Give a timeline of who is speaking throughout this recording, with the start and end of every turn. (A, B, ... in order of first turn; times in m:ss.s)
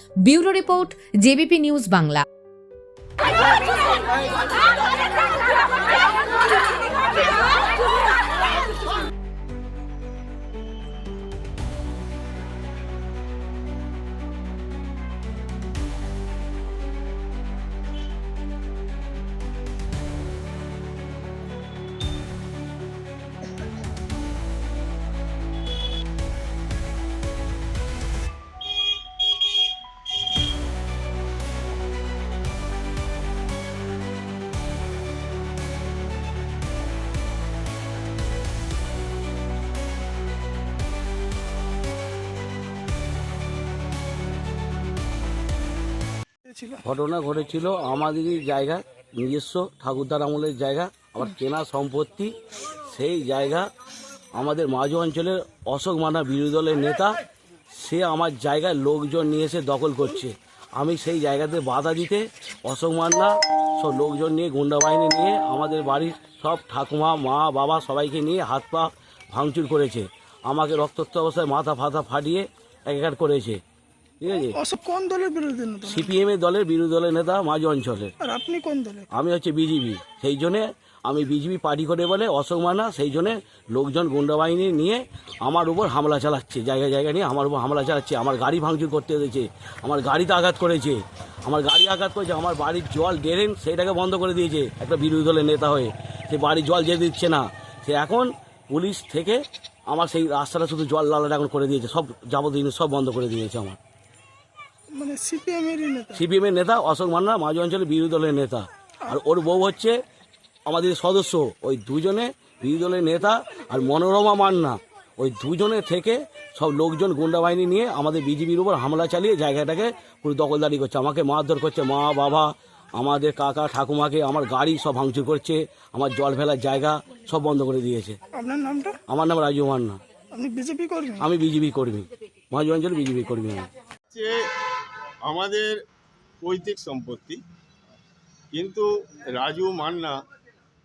0:00.3-0:02.2 A
0:46.4-0:46.8 B
0:46.8-0:52.3 C
0:52.9-0:53.7 C
0:54.4-0:57.2 C
0:57.8-1:13.6 C
1:14.2-1:14.6 C
1:14.5-1:16.2 B
1:15.8-1:18.1 C
1:18.2-1:19.0 B
1:19.1-1:43.8 C
1:44.9-1:46.2 B
1:46.1-1:50.0 C
1:50.7-2:08.2 C
2:08.3-2:09.0 B
2:09.1-2:10.0 C
2:10.3-2:11.3 B
2:11.2-2:13.7 C
2:15.3-2:15.7 D
2:16.4-2:17.4 D
2:18.5-2:20.1 D